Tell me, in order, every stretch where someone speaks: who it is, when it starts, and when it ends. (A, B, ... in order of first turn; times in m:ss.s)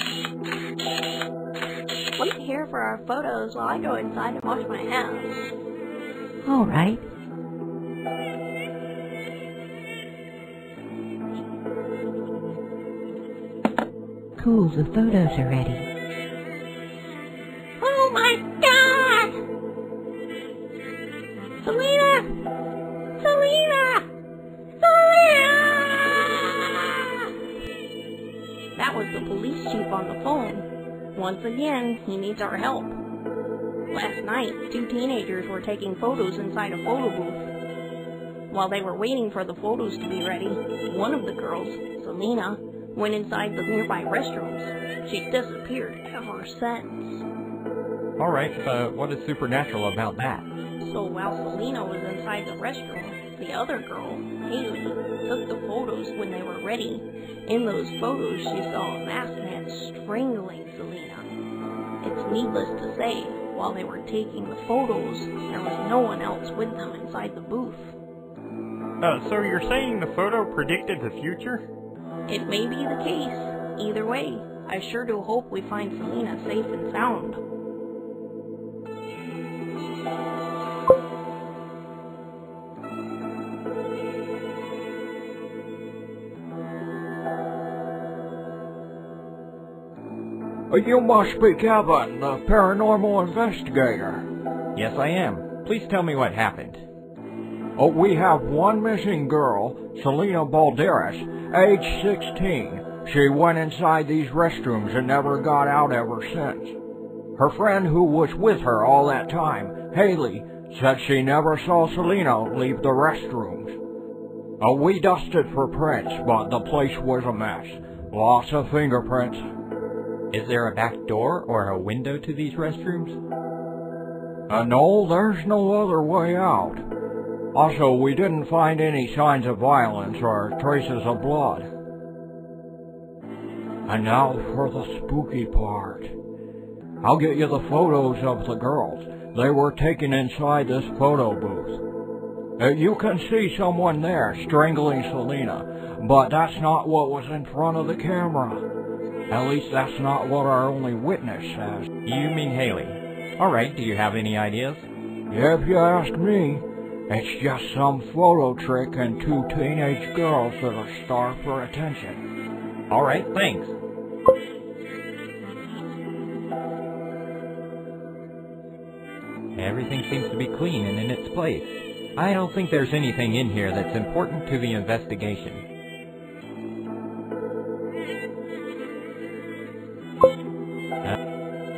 0:02.2-0:05.4 A
0:06.4-0:07.1 B
0:14.4-0:15.9 B
0:17.8-0:19.4 A
0:21.6-0:22.3 A
0:23.2-0:24.1 A
0:24.8-0:26.7 A
0:28.8-0:33.0 A
0:33.9-0:37.5 A
0:38.5-0:47.3 A
0:48.2-0:50.5 C
0:50.8-1:01.3 A
1:02.0-1:08.0 A
1:09.0-1:11.6 C
1:12.3-1:17.4 A
1:30.7-1:34.3 D
1:34.8-1:36.8 C
1:37.8-1:46.7 D
1:47.4-1:53.8 D
1:54.6-1:59.4 D
2:00.3-2:03.2 C
2:04.5-2:06.8 D
2:07.6-2:11.7 D
2:13.9-2:16.1 D
2:17.0-2:21.8 D
2:22.6-2:28.7 D
2:29.3-2:31.9 D
2:32.0-2:34.9 C
2:35.3-2:42.2 D
2:42.9-2:43.8 C
2:49.6-2:55.6 C